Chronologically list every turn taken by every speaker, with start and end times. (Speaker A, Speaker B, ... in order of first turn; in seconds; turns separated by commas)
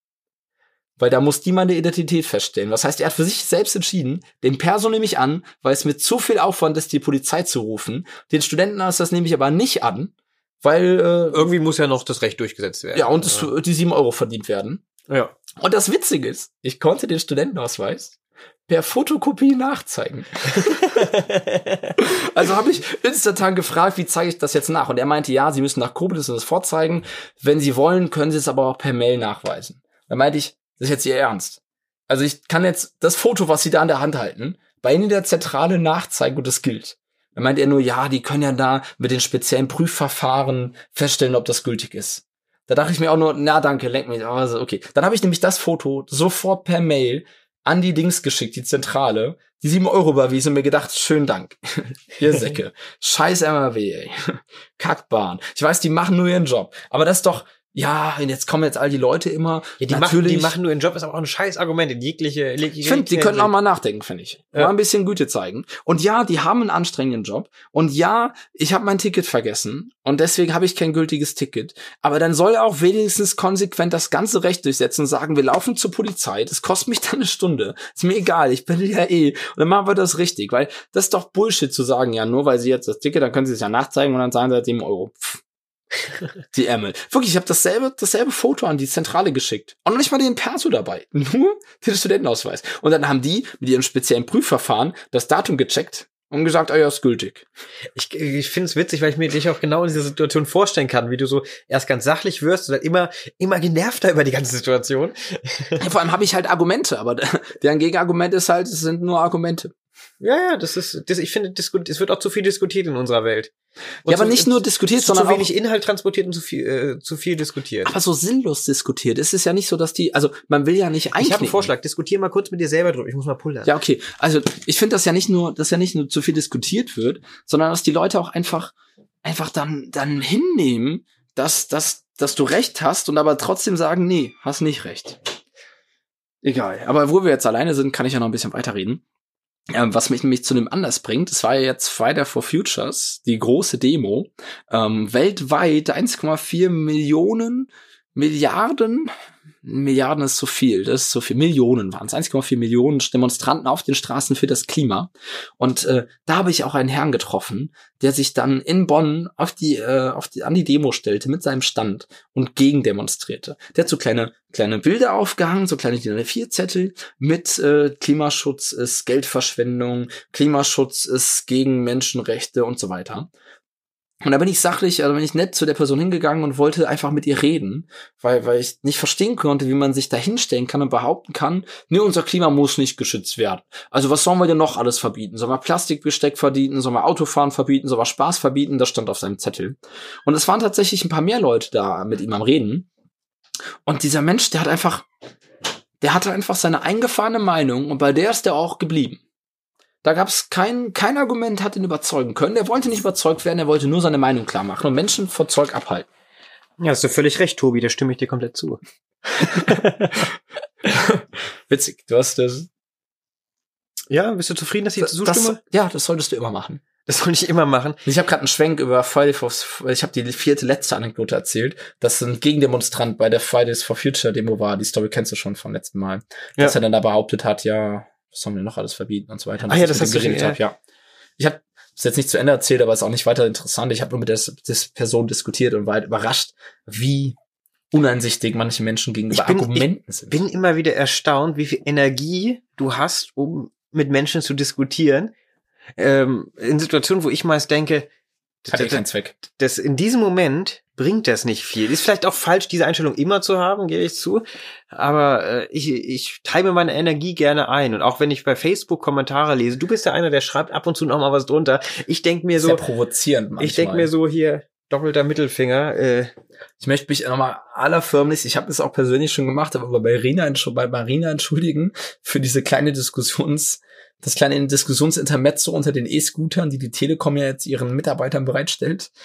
Speaker A: 1.0-11.5, Speaker B: 11.3-13.5, Speaker A: 12.9-14.8, Speaker B: 15.1-15.3, Speaker A: 15.6-20.8, Speaker B: 20.5-22.0, Speaker A: 22.0-60.5, Speaker B: 59.8-63.5, Speaker A: 62.8-85.4, Speaker A: 86.5-97.5, Speaker B: 97.9-105.8, Speaker A: 105.8-109.7, Speaker B: 110.2-113.5, Speaker B: 114.0-117.9, Speaker A: 114.1-115.5, Speaker A: 117.8-121.7, Speaker B: 121.2-123.7, Speaker A: 123.6-135.2, Speaker A: 136.4-139.0, Speaker A: 139.7-149.1, Speaker A: 149.6-173.3, Speaker A: 174.2-192.9, Speaker A: 193.8-195.1, Speaker A: 196.0-199.2, Speaker A: 200.0-206.1, Speaker B: 206.8-208.8, Speaker B: 209.4-210.3, Speaker A: 209.5-209.8, Speaker A: 210.9-212.7, Speaker B: 214.1-215.6, Speaker A: 215.0-216.8, Speaker B: 217.1-218.0, Speaker A: 218.0-230.8, Speaker B: 229.7-230.6, Speaker A: 231.4-237.4, Speaker A: 237.9-240.4, Speaker B: 239.3-245.3, Speaker B: 246.0-248.1, Speaker B: 248.6-262.8, Speaker A: 248.7-249.3, Speaker A: 262.6-264.1, Speaker B: 263.6-266.3, Speaker A: 266.8-279.1